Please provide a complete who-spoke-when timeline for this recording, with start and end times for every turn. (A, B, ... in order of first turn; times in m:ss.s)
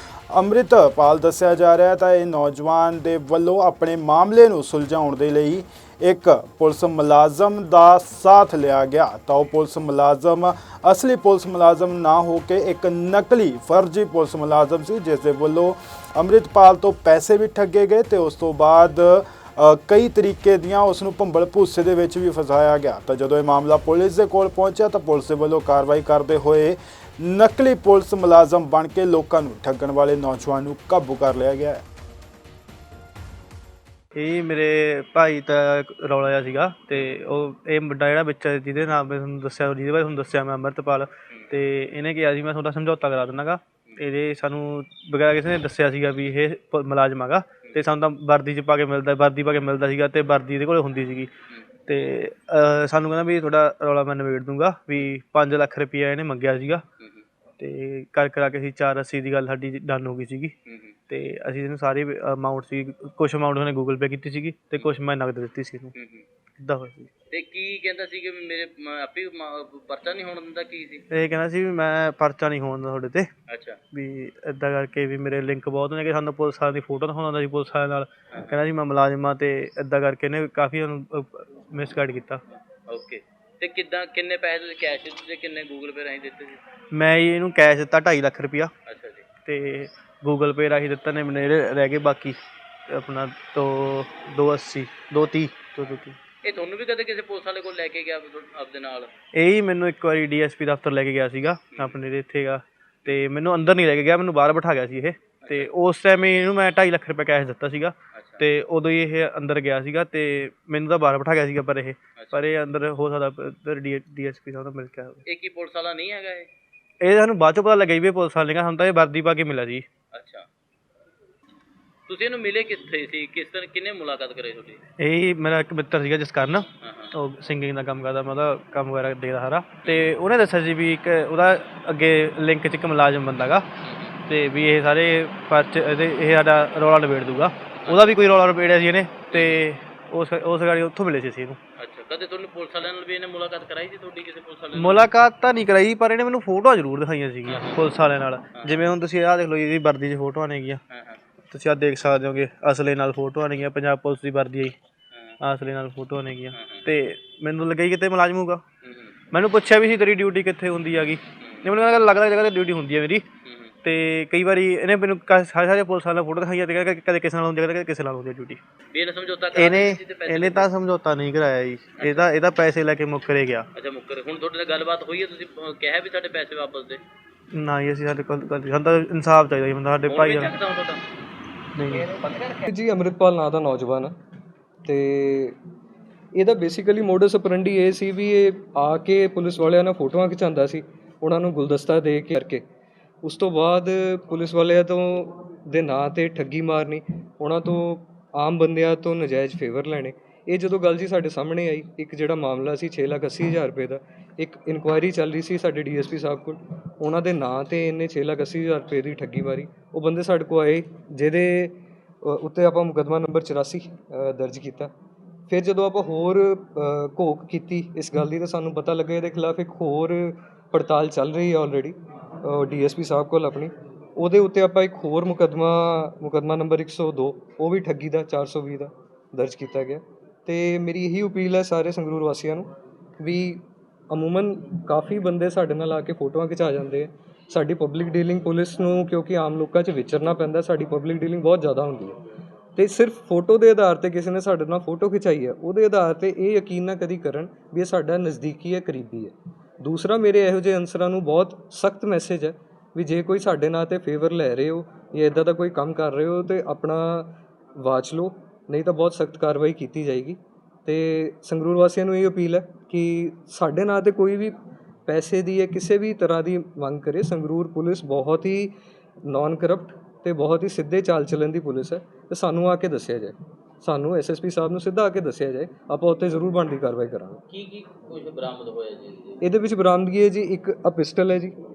0:00.3-0:31.8 A
0:34.1-0:51.3 B
0:51.9-0:56.8 B
0:57.0-0:57.2 C
0:57.6-1:00.5 B
1:00.6-1:01.0 C
1:01.1-1:05.9 B
1:05.9-1:06.2 C
1:06.6-1:07.1 B
1:07.3-1:11.0 C
1:11.1-1:13.3 B
1:13.5-1:13.8 C
1:13.9-1:22.4 B
1:22.9-1:26.6 C
1:26.9-1:28.7 B
1:28.9-1:29.2 C
1:29.4-1:32.4 B
1:32.9-1:36.2 B
1:36.4-1:39.1 C
1:39.3-1:55.2 B
1:45.4-1:45.7 C
1:48.1-1:48.4 C
1:52.2-1:52.4 C
1:55.2-1:56.5 C
1:57.0-1:59.8 B
2:00.1-2:00.5 C
2:02.1-2:04.8 C
2:05.0-2:13.7 B
2:06.8-2:07.1 C
2:09.8-2:10.1 C
2:13.8-2:14.2 C
2:14.3-2:21.6 B
2:19.3-2:19.6 C
2:21.8-2:25.1 C
2:24.8-2:30.8 B
2:27.4-2:27.9 C
2:28.5-2:28.9 C
2:30.9-2:31.2 C
2:31.5-2:34.7 B
2:35.4-2:38.6 B
2:36.5-2:36.8 C
2:38.8-2:39.2 C
2:39.3-2:43.2 B
2:41.4-2:41.7 C
2:43.4-2:43.7 C
2:43.8-2:48.6 B
2:48.9-2:50.7 C
2:49.5-2:53.6 B
2:52.0-2:52.3 C
2:53.7-2:57.0 C
2:57.5-3:00.6 B
3:00.1-3:01.0 C
3:01.8-3:02.2 B
3:02.0-3:02.6 C
3:02.6-3:04.2 D
3:04.8-3:05.6 D
3:06.3-3:12.6 D
3:13.2-3:34.9 D
3:35.5-4:02.2 D
4:02.7-4:24.5 D
4:25.1-4:37.4 D
4:37.5-4:39.4 C
4:39.4-4:41.6 D